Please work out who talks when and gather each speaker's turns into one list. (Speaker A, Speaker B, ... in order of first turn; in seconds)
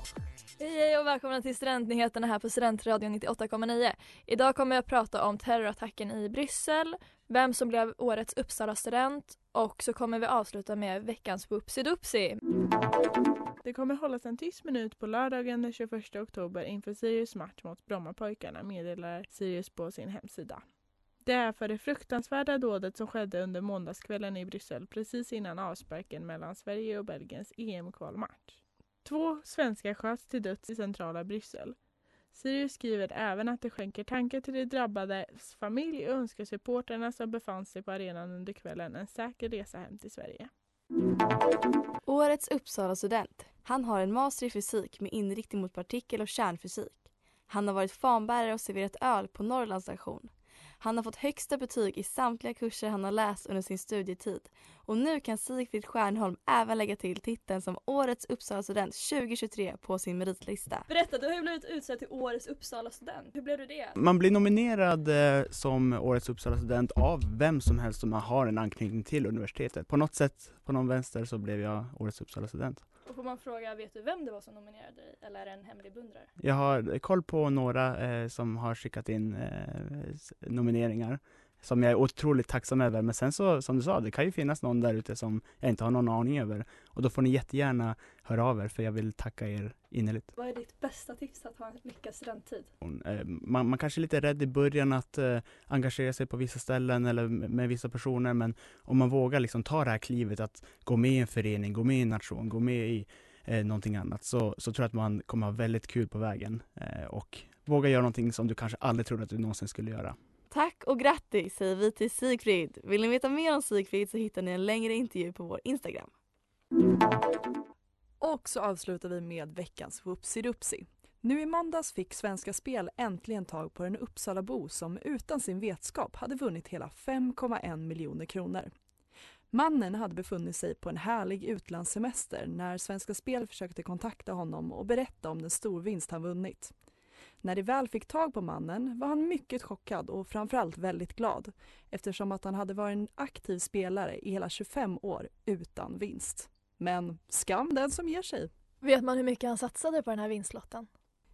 Speaker A: 0.6-12.4, 60.9-64.0, 73.0-76.3, 90.3-92.7, 148.8-150.9
Speaker B: 13.6-20.6, 21.2-31.8, 32.3-40.5
Speaker C: 42.1-60.9, 110.5-116.1
Speaker D: 64.0-72.8, 76.4-90.3, 92.8-110.2
Speaker E: 118.2-128.7, 129.5-136.7, 137.4-148.5